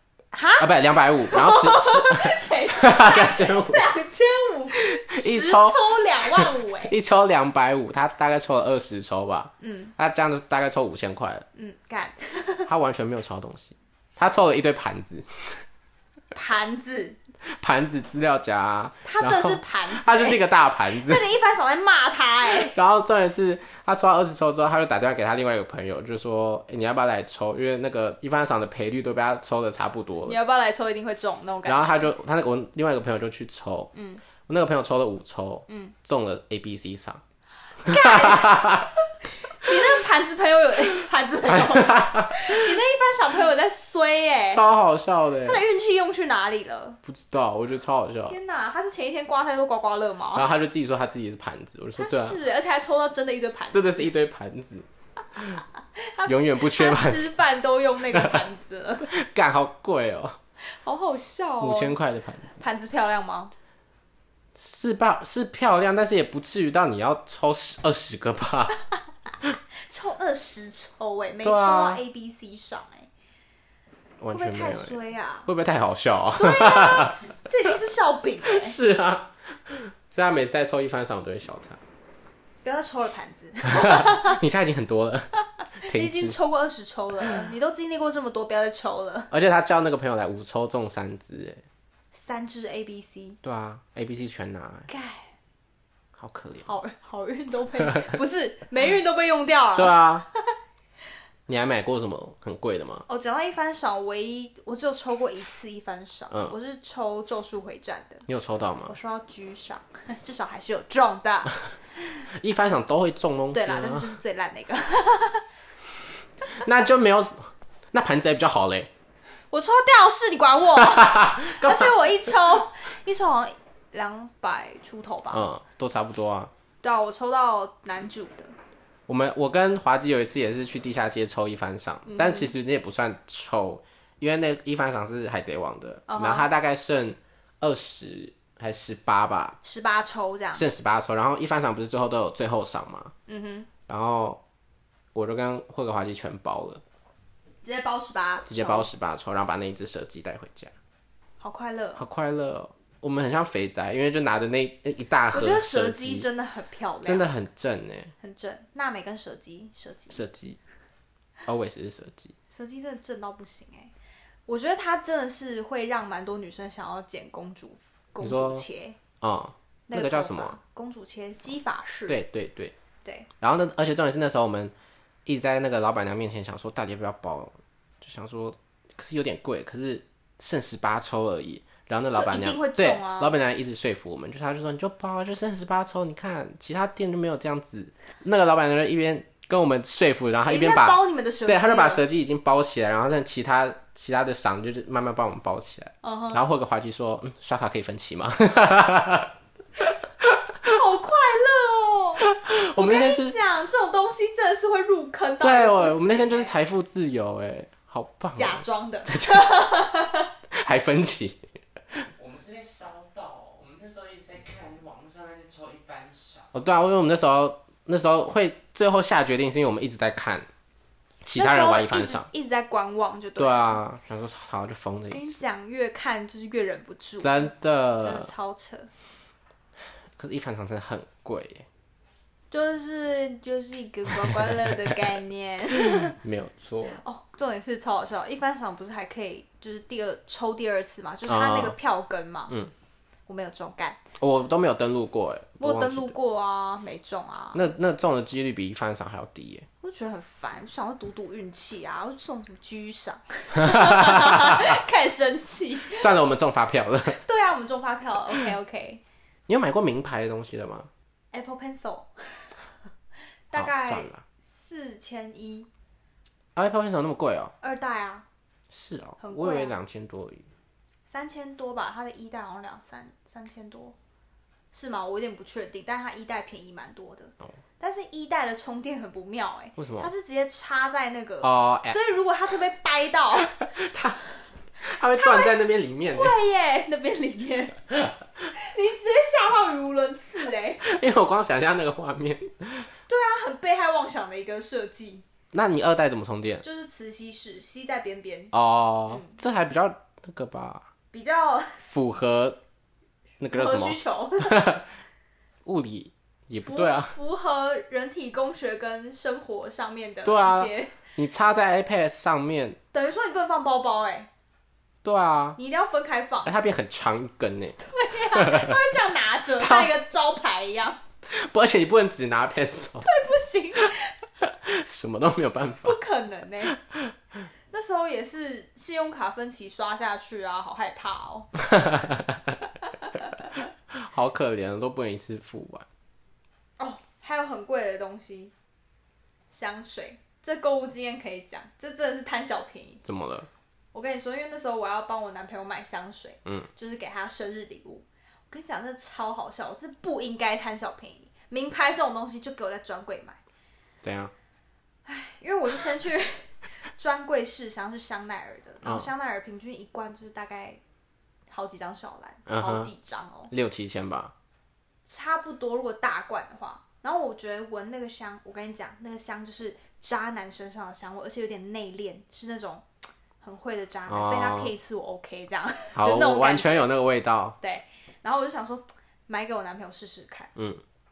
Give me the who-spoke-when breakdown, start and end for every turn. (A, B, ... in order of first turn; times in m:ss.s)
0:00.3-0:00.7 A
0:00.6-0:03.9 B
0:01.2-0:07.0 A
0:04.8-0:11.5 B
0:09.6-0:09.9 A
0:11.6-0:12.7 A
0:12.7-0:15.6 B
0:16.3-0:17.2 A
0:17.6-0:21.2 B
0:19.0-0:22.8 A
0:22.7-0:30.4 B
0:30.3-0:32.1 A
0:31.7-0:33.9 B
0:33.9-0:34.2 A
0:34.5-0:37.2 B
0:35.7-0:36.0 A
0:37.8-0:38.9 A
0:37.9-0:38.9 B
0:39.6-0:44.6 A
0:41.5-0:42.6 B
0:44.5-0:45.6 B
0:45.4-0:47.0 A
0:47.0-0:48.4 B
0:48.3-0:50.5 A
0:50.4-0:52.4 B
0:52.0-0:54.1 A
0:53.7-0:54.9 B
0:55.4-0:55.6 B
0:56.0-0:59.1 A
0:56.3-0:57.3 B
0:58.1-0:58.4 B
0:59.0-1:00.4 B
1:00.7-1:02.0 A
1:01.6-1:02.6 B
1:02.6-1:03.5 A
1:04.6-1:08.7 B
1:09.9-1:13.1 A
1:11.4-1:12.0 B
1:14.2-1:17.2 B
1:14.3-1:15.5 A
1:16.4-1:18.8 A
1:18.4-1:21.8 B
1:22.6-1:24.4 A
1:23.8-1:26.4 B
1:25.8-1:29.3 A
1:29.3-1:31.6 B
1:32.1-1:33.4 A
1:33.4-1:34.9 B
1:34.9-1:35.3 A
1:36.2-1:36.7 B
1:36.7-1:40.1 A
1:39.8-1:40.3 B
1:41.5-1:43.0 B
1:43.1-1:48.3 A
1:48.3-1:49.0 B
1:48.9-1:51.6 A
1:52.3-1:54.2 B
1:53.5-1:55.4 A
1:56.5-1:58.9 B
1:59.5-2:05.5 A
2:00.8-2:02.0 B
2:05.3-2:06.5 B
2:06.8-2:08.5 A
2:09.1-2:19.6 B
2:12.1-2:12.5 A
2:16.1-2:16.5 A
2:19.6-2:20.7 A
2:20.6-2:23.1 B
2:23.3-2:23.7 A
2:23.9-2:24.4 B
2:25.2-2:26.8 B
2:27.6-2:28.9 A
2:28.5-2:30.7 B
2:31.4-2:32.0 A
2:32.0-2:36.3 B
2:35.3-2:37.3 A
2:37.0-2:38.1 B
2:38.2-2:40.2 A
2:40.1-2:40.6 B
2:41.4-2:42.3 B
2:42.5-2:43.9 A
2:44.5-2:49.0 A
2:48.2-2:48.7 B
2:49.2-2:50.6 B
2:49.9-2:52.2 A
2:52.1-2:52.7 B
2:53.4-2:54.7 B
2:55.3-3:20.4 B
3:02.1-3:03.3 A
3:10.5-3:12.0 A
3:16.0-3:16.4 A
3:20.6-3:26.5 A
3:22.3-3:23.4 B
3:25.4-3:29.5 B
3:28.4-3:30.3 A
3:30.5-3:32.1 B
3:32.2-3:36.5 C
3:36.5-3:40.5 B
3:41.2-3:42.3 B
3:41.4-3:43.8 A
3:43.4-3:45.4 B
3:45.1-3:48.9 A
3:47.2-3:48.3 B
3:50.2-3:51.7 B
3:52.5-3:56.2 A
3:54.1-3:55.0 B
3:55.8-3:57.0 B
3:56.8-4:02.6 A
4:01.3-4:01.8 B
4:03.3-4:04.1 A
4:04.2-4:06.2 B
4:05.6-4:07.6 A
4:07.5-4:09.7 B
4:09.8-4:16.1 A
4:13.6-4:14.6 B
4:15.9-4:17.2 B
4:17.1-4:19.0 A
4:19.5-4:20.9 B
4:21.3-4:22.6 A
4:23.5-4:25.7 A
4:23.6-4:24.2 B
4:26.6-4:27.5 B
4:27.6-4:28.3 A
4:28.7-4:30.5 B
4:29.2-4:29.8 A
4:31.1-4:34.0 A
4:34.7-4:43.7 A
4:39.8-4:40.1 B
4:41.4-4:42.0 B
4:43.6-4:44.2 B
4:44.8-4:46.4 B
4:45.2-4:45.5 A
4:46.1-4:47.9 A
4:48.5-4:50.8 A
4:50.8-4:52.9 B
4:53.1-4:55.2 A
4:55.5-4:56.6 B
4:56.6-4:58.5 A
4:58.5-5:00.8 B
4:59.1-4:59.4 A
5:01.1-5:01.9 A
5:01.9-5:02.6 B
5:03.4-5:04.9 B
5:03.5-5:04.6 A
5:05.6-5:07.1 B
5:06.6-5:11.0 A
5:10.2-5:12.8 B
5:12.9-5:14.3 A
5:15.0-5:15.6 B
5:15.6-5:16.5 A
5:16.4-5:18.8 B
5:17.8-5:21.0 A
5:19.6-5:20.0 B
5:21.3-5:23.1 B
5:23.0-5:24.2 A
5:24.4-5:26.0 B
5:25.8-5:26.8 A
5:26.8-5:27.1 B
5:27.7-5:31.6 A
5:31.7-5:32.5 B
5:32.8-5:33.6 A
5:33.9-5:35.9 B
5:36.8-5:38.5 A
5:39.5-5:43.0 A
5:43.0-5:43.5 B
5:43.9-5:53.4 A
5:54.0-5:54.3 B
5:55.1-6:00.8 A
5:58.8-5:59.1 B
6:01.5-6:03.5 A
6:02.5-6:02.9 B
6:03.5-6:04.3 B
6:05.0-6:12.8 A
6:13.4-6:16.9 A
6:14.1-6:14.7 B
6:16.0-6:17.6 B
6:17.6-6:20.5 A
6:20.6-6:20.8 B